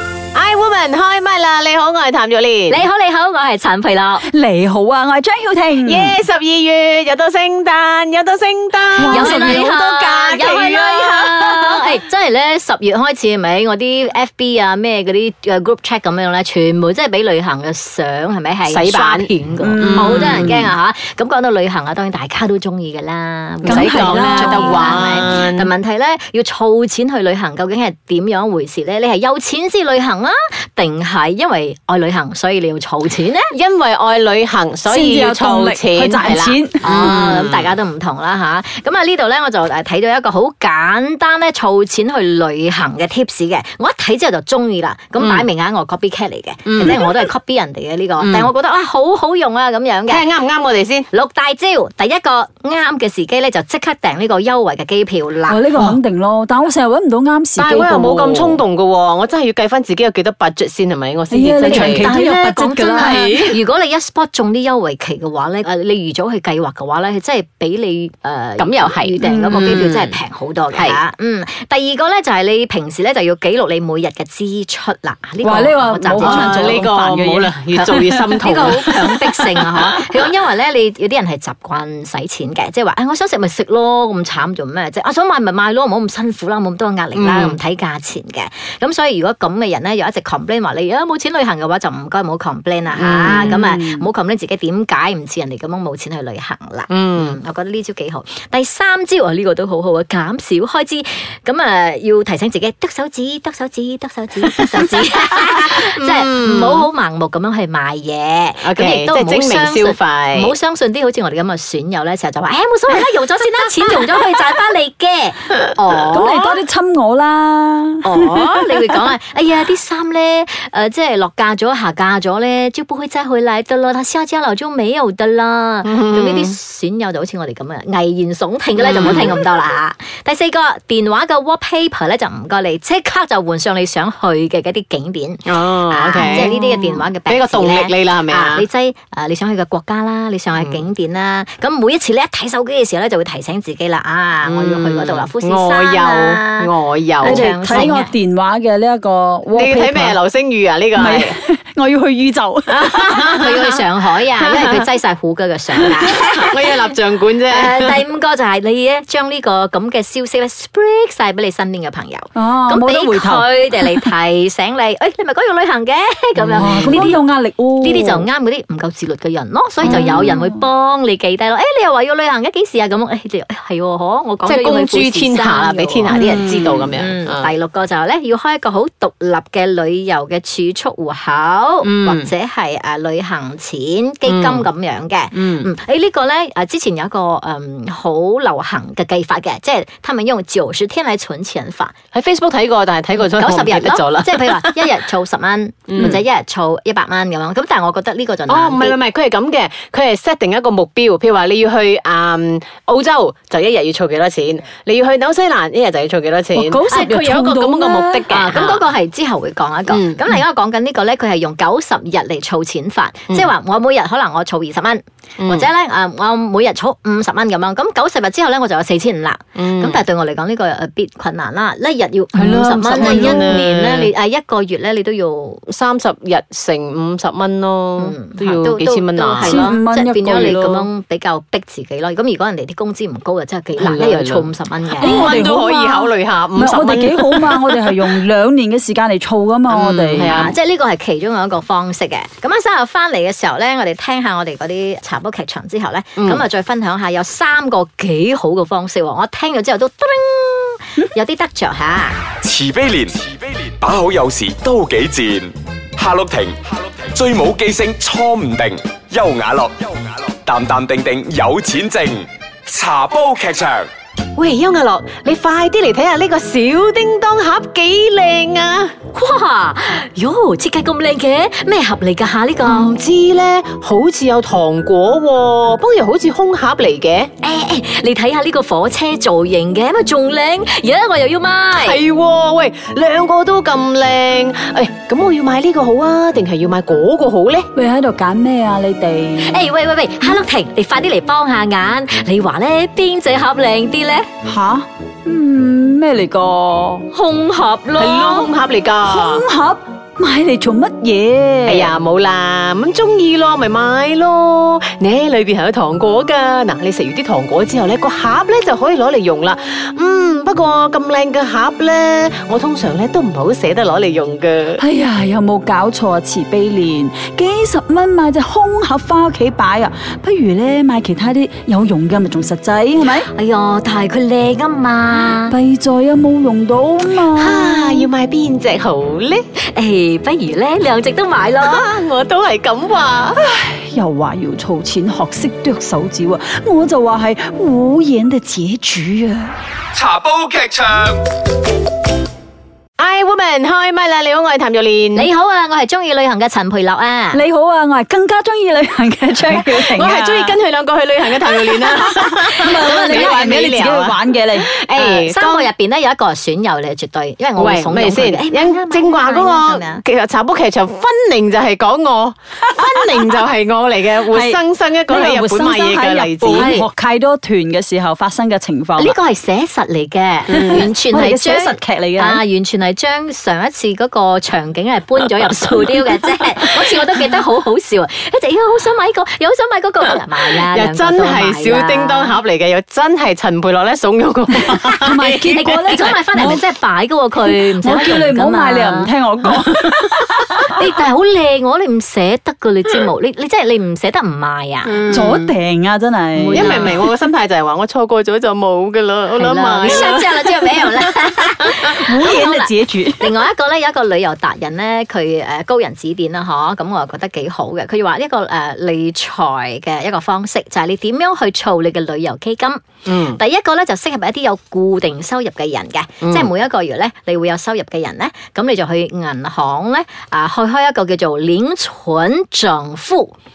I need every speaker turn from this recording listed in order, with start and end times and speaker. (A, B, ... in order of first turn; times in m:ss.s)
0:00.3-0:02.8 A
0:02.7-0:04.2 B
0:04.2-0:06.2 C
0:05.8-0:12.0 A
0:09.0-0:09.7 C
0:09.1-0:33.5 B
0:18.7-0:20.7 A
0:19.6-0:20.4 C
0:23.6-0:25.7 A
0:23.7-0:24.9 C
0:33.5-0:37.7 A
0:34.9-0:36.8 C
0:36.8-0:50.2 B
0:45.2-0:45.4 A
0:46.7-0:47.3 A
0:48.2-0:48.5 A
0:50.1-0:51.1 A
0:51.1-0:55.9 B
0:55.5-0:58.6 C
0:57.6-1:02.2 A
1:01.3-1:03.6 C
1:01.6-1:16.9 B
1:03.0-1:03.5 A
1:08.6-1:10.2 A
1:09.2-1:09.7 C
1:10.7-1:11.0 A
1:15.4-1:17.5 C
1:16.1-1:20.2 A
1:17.7-1:56.6 B
1:27.1-1:27.6 A
1:32.9-1:34.1 A
1:36.9-1:37.4 A
1:44.5-1:46.9 A
1:48.6-1:50.5 A
1:56.1-1:58.6 C
1:58.0-2:26.7 B
2:05.8-2:06.5 A
2:08.8-2:09.4 A
2:15.4-2:18.6 A
2:24.4-2:27.9 A
2:27.2-2:28.1 B
2:27.2-2:30.1 C
2:29.5-2:31.3 A
2:31.0-2:32.9 C
2:32.7-2:33.8 A
2:32.9-2:36.8 B
2:34.4-2:34.8 A
2:35.8-2:38.0 A
2:37.5-2:47.2 B
2:42.3-2:44.1 C
2:46.4-2:47.2 A
2:46.6-2:48.2 C
2:47.8-3:11.9 B
2:49.8-2:50.4 A
2:54.4-2:57.5 A
3:01.8-3:02.3 A
3:04.2-3:04.7 A
3:05.3-3:05.7 A
3:12.1-3:14.8 A
3:13.2-3:19.0 B
3:15.9-3:16.2 A
3:18.5-3:28.8 A
3:26.5-3:28.2 C
3:28.3-3:45.6 B
3:29.9-3:30.2 A
3:35.4-3:35.7 A
3:39.6-3:40.0 A
3:42.4-3:44.1 A
3:42.4-3:43.6 C
3:45.7-3:49.7 A
3:48.0-3:55.4 B
3:49.4-3:50.8 C
3:53.8-3:58.2 A
3:55.0-4:00.3 C
3:59.7-4:00.6 A
4:00.1-4:12.2 B
4:06.2-4:06.4 A
4:12.4-4:23.9 D
4:24.4-4:28.9 A
4:29.1-4:32.9 B
4:32.6-4:37.3 A
4:37.4-4:42.0 B
4:41.7-4:47.7 A
4:47.8-4:49.6 C
4:49.4-4:54.3 B
4:54.4-4:57.0 C
4:57.1-4:58.5 B
4:58.0-4:59.4 A
4:59.1-5:01.9 C
5:01.6-5:14.8 A
5:14.8-5:23.3 C
5:23.3-5:25.6 B
5:25.5-5:28.0 C
5:27.3-5:29.4 A
5:29.6-5:31.9 B
5:31.6-5:33.4 A
5:33.4-5:39.6 C
5:39.9-5:41.2 D
5:43.0-5:45.3 A
5:45.1-5:47.4 B
5:47.3-5:50.6 C
5:49.5-5:55.7 A
5:52.4-5:54.7 C
5:52.8-5:53.4 B
5:54.9-6:00.0 B
5:57.6-6:06.8 A
6:04.3-6:09.1 C
6:06.5-6:06.9 B
6:09.0-6:22.4 B
6:10.5-6:10.9 A
6:10.8-6:12.4 C
6:20.7-6:26.1 A
6:24.9-6:26.6 C
6:25.5-6:29.1 B
6:27.4-6:30.4 C
6:30.7-6:35.0 B
6:34.8-6:35.5 A
6:35.1-6:37.1 C
6:36.4-6:41.9 A
6:36.5-6:37.0 B
6:39.4-7:03.3 B
6:42.0-6:43.3 C
6:53.1-6:53.4 A
6:56.2-6:56.5 A